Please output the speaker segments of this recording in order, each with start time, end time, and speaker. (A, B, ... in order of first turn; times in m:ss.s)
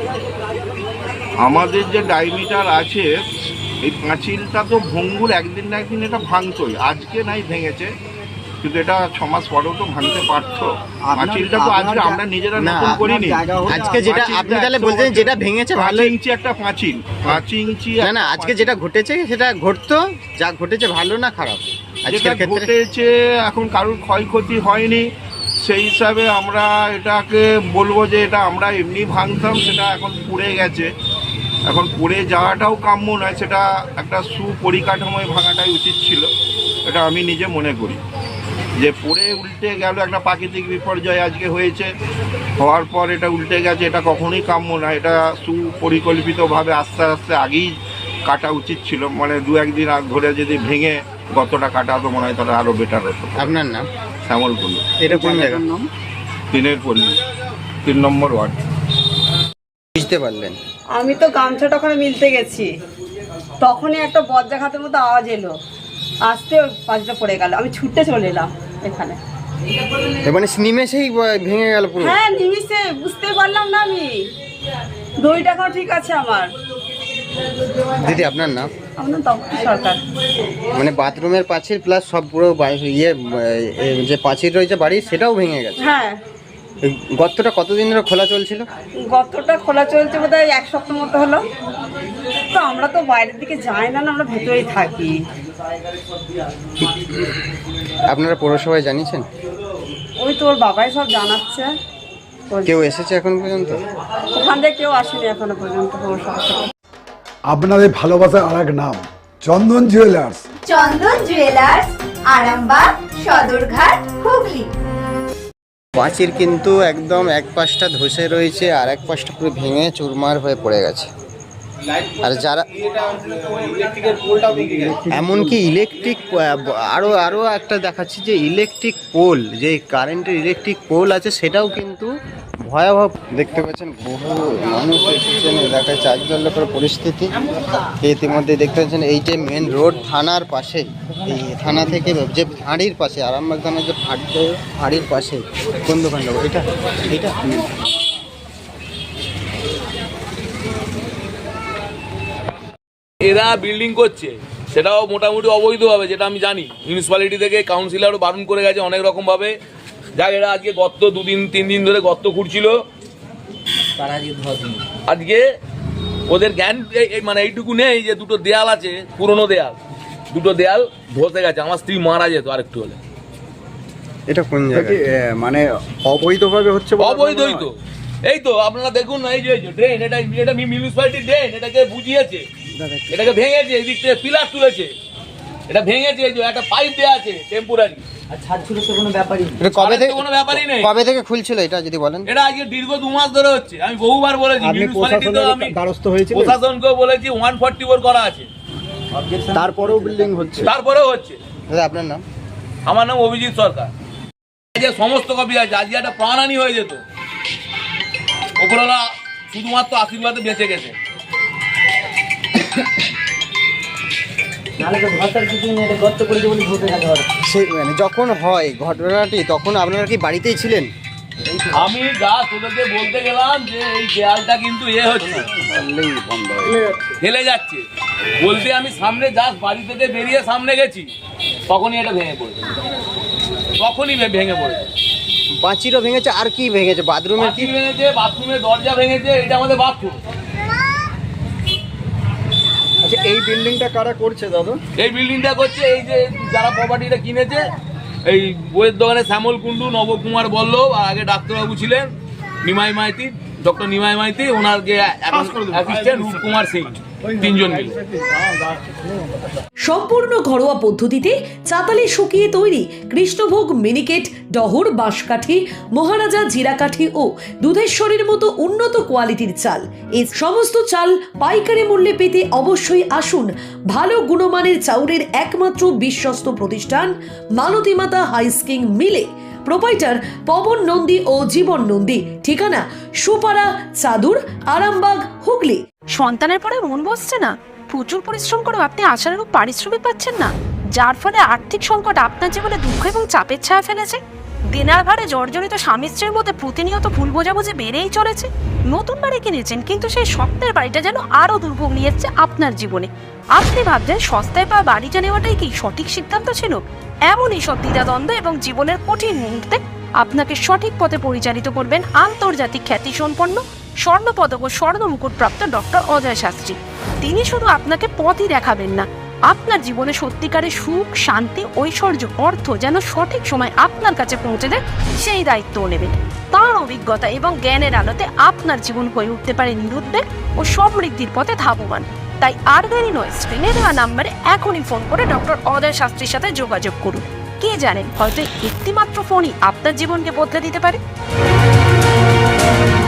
0:01.4-0:03.1 A
0:03.8-0:07.9 A
0:08.6-0:18.7 A
0:11.0-0:14.3 B
0:12.6-0:13.1 C
0:13.7-0:16.1 C
0:18.0-0:22.7 C
0:22.1-0:25.0 A
0:25.6-0:30.9 A
0:31.7-0:36.3 A
0:36.9-0:38.0 A
0:38.8-0:41.9 A
0:42.6-0:47.7 A
0:48.3-0:53.6 A
0:53.4-0:53.9 C
0:54.3-0:54.9 A
0:55.0-0:55.6 C
0:55.1-0:55.9 B
0:56.5-0:57.2 A
0:57.8-0:58.6 A
1:00.0-1:00.6 C
1:01.0-1:02.7 D
1:03.6-1:05.5 D
1:06.3-1:09.2 D
1:10.2-1:12.2 C
1:12.0-1:14.1 D
1:15.2-1:16.5 D
1:18.0-1:18.7 C
1:19.0-1:20.0 D
1:20.8-1:25.9 C
1:25.8-1:26.2 D
1:26.9-1:28.6 C
1:29.0-1:31.4 D
1:32.5-1:35.1 D
1:38.1-1:39.2 C
1:40.2-1:41.7 D
1:42.6-1:43.8 C
1:44.4-1:46.6 D
1:47.5-1:50.4 E
1:50.7-1:54.7 F
1:56.0-2:01.1 C
2:02.2-2:02.6 C
2:04.9-2:12.1 C
2:12.7-2:17.3 C
2:18.0-2:27.5 C
2:33.2-2:39.6 G
2:40.2-2:42.8 G
2:45.0-2:45.4 G
2:46.3-2:49.8 G
2:50.3-2:53.0 G
2:54.3-2:55.1 C
2:54.7-2:57.6 B
2:56.2-2:56.5 C
2:57.0-2:57.7 G
2:58.3-3:02.4 G
3:02.8-3:03.3 C
3:03.1-3:04.9 G
3:05.7-3:08.0 G
3:09.6-3:12.3 C
3:09.7-3:10.9 G
3:12.3-3:15.8 G
3:14.7-3:16.5 B
3:16.3-3:18.5 G
3:19.6-3:20.7 C
3:20.6-3:21.4 G
3:21.7-3:22.2 C
3:22.9-3:23.9 G
3:24.8-3:27.0 G
3:28.6-3:31.0 G
3:37.5-3:40.9 C
3:41.7-3:45.5 G
3:45.5-3:46.8 B
3:47.2-3:47.8 G
3:48.4-3:51.1 G
3:51.7-3:52.7 G
3:53.8-3:54.8 G
3:55.6-3:57.7 C
3:57.4-4:00.2 G
4:03.0-4:04.8 B
4:05.0-4:07.6 G
4:08.3-4:12.1 G
4:12.6-4:18.0 G
4:19.8-4:45.8 H
4:46.2-4:54.2 I
4:54.7-5:41.0 I